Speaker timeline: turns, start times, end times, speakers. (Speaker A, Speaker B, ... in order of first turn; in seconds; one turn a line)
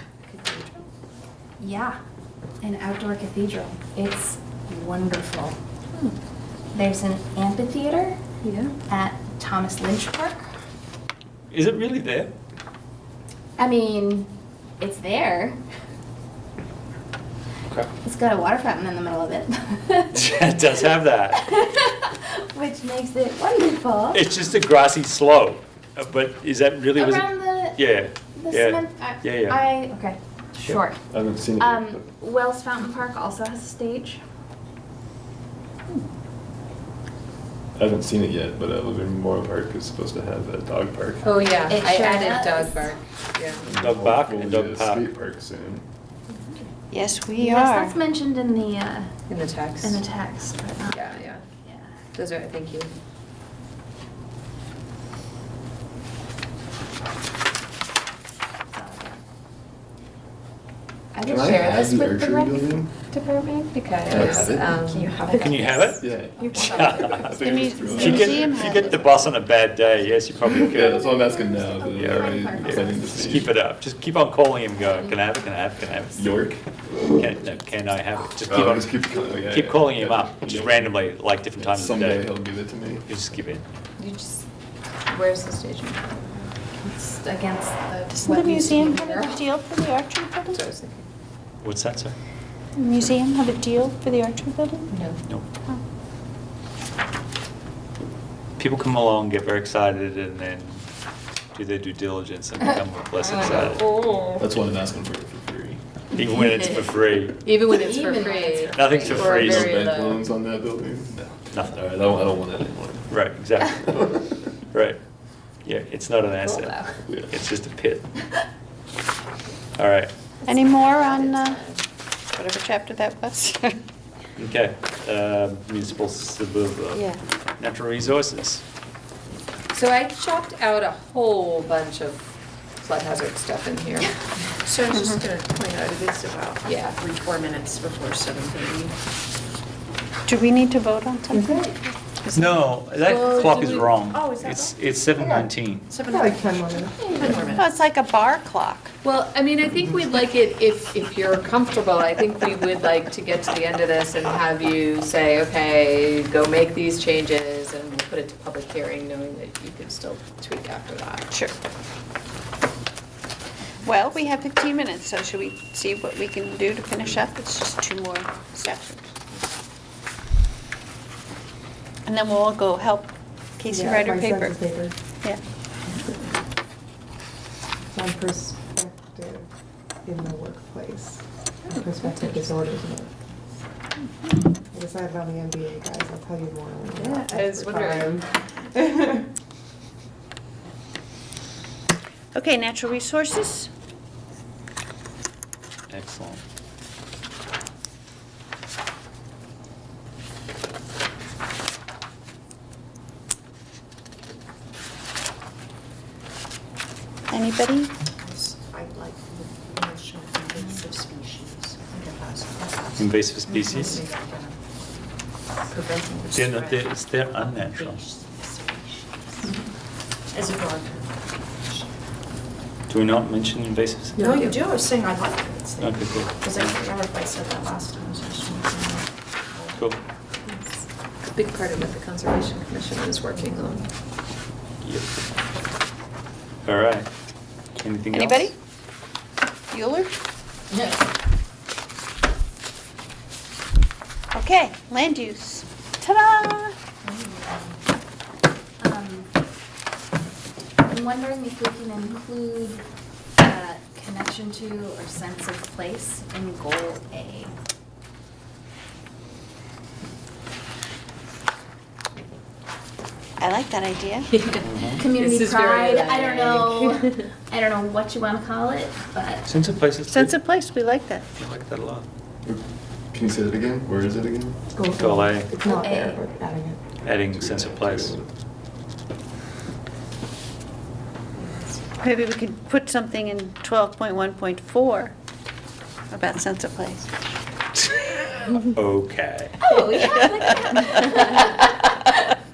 Speaker A: 0.2-0.8
Speaker B: 1.6-2.0
Speaker B: 2.6-5.5
Speaker B: 6.7-8.2
Speaker A: 8.4-8.7
Speaker B: 8.9-10.5
Speaker C: 11.5-12.3
Speaker B: 13.6-15.6
Speaker B: 18.0-20.4
Speaker C: 20.1-21.4
Speaker B: 21.3-24.2
Speaker C: 24.1-29.7
Speaker B: 26.9-31.0
Speaker D: 31.1-32.0
Speaker B: 31.6-34.2
Speaker D: 37.8-41.4
Speaker A: 41.2-43.7
Speaker B: 41.7-42.9
Speaker D: 43.6-45.9
Speaker C: 43.8-45.1
Speaker E: 46.9-48.0
Speaker B: 47.4-49.2
Speaker A: 49.3-50.0
Speaker B: 49.8-51.9
Speaker A: 50.9-51.4
Speaker A: 52.1-52.9
Speaker B: 58.7-59.2
Speaker A: 61.2-62.0
Speaker D: 61.2-62.9
Speaker B: 62.0-62.6
Speaker B: 63.1-63.6
Speaker A: 63.6-65.9
Speaker D: 64.1-64.7
Speaker B: 64.9-68.3
Speaker C: 65.4-66.1
Speaker D: 66.0-68.9
Speaker C: 66.6-67.3
Speaker E: 67.3-69.1
Speaker C: 67.9-71.0
Speaker D: 70.6-73.5
Speaker B: 70.7-73.3
Speaker C: 71.9-76.3
Speaker D: 76.2-76.6
Speaker C: 77.2-82.3
Speaker D: 78.5-83.0
Speaker C: 83.0-83.6
Speaker A: 84.0-84.4
Speaker A: 85.0-86.5
Speaker B: 86.8-89.4
Speaker E: 88.1-90.6
Speaker A: 90.5-91.1
Speaker C: 91.6-92.1
Speaker E: 92.8-94.9
Speaker C: 98.6-100.8
Speaker C: 101.5-103.8
Speaker D: 104.4-105.8
Speaker C: 106.1-107.4
Speaker A: 107.4-110.2
Speaker B: 107.7-109.1
Speaker C: 108.7-109.8
Speaker D: 108.9-113.2
Speaker C: 111.5-112.0
Speaker C: 113.1-114.2
Speaker D: 113.9-114.2
Speaker C: 114.7-115.0
Speaker C: 115.6-118.1
Speaker B: 116.5-116.9
Speaker C: 119.8-120.1
Speaker E: 120.5-121.6
Speaker A: 120.6-121.6
Speaker E: 122.3-123.8
Speaker C: 124.3-127.0
Speaker E: 126.9-127.2
Speaker C: 127.6-128.6
Speaker A: 129.7-132.2
Speaker A: 132.8-134.1
Speaker F: 134.6-138.9
Speaker E: 134.9-135.2
Speaker A: 136.6-137.0
Speaker E: 140.3-141.7
Speaker G: 141.3-141.7
Speaker C: 142.3-145.9
Speaker F: 142.4-144.7
Speaker G: 145.2-145.5
Speaker F: 145.9-147.8
Speaker G: 146.0-147.6
Speaker E: 147.5-148.9
Speaker A: 149.0-161.2
Speaker E: 161.3-161.6
Speaker E: 163.8-169.0
Speaker E: 172.1-174.6
Speaker G: 173.7-174.9
Speaker G: 177.9-179.5
Speaker G: 180.0-183.1
Speaker G: 184.7-189.2
Speaker A: 187.0-188.1
Speaker E: 192.3-193.7
Speaker C: 195.9-196.4
Speaker E: 207.3-207.9
Speaker F: 208.2-213.1
Speaker C: 212.9-214.0
Speaker F: 213.6-214.6
Speaker F: 215.7-216.9
Speaker C: 216.3-218.0
Speaker F: 217.4-219.5
Speaker F: 220.3-221.9
Speaker C: 222.9-224.3
Speaker A: 224.2-224.7
Speaker F: 224.2-229.9
Speaker C: 225.8-226.8
Speaker A: 230.5-233.9
Speaker C: 236.6-237.1
Speaker C: 237.8-238.5
Speaker E: 238.1-238.5
Speaker E: 239.7-240.1
Speaker E: 244.3-246.7
Speaker B: 248.8-249.3
Speaker B: 250.8-252.8
Speaker B: 253.4-257.5
Speaker E: 263.4-264.3
Speaker A: 264.3-267.3
Speaker C: 264.6-265.0
Speaker B: 265.0-269.5
Speaker C: 269.5-270.3
Speaker E: 270.1-271.2
Speaker C: 271.4-272.1
Speaker D: 273.1-274.6
Speaker G: 274.7-276.8
Speaker C: 274.9-275.6
Speaker B: 275.6-276.2
Speaker C: 277.0-278.2
Speaker D: 277.3-278.3
Speaker E: 282.0-285.1
Speaker E: 286.1-287.1
Speaker C: 288.6-289.7
Speaker B: 289.6-291.6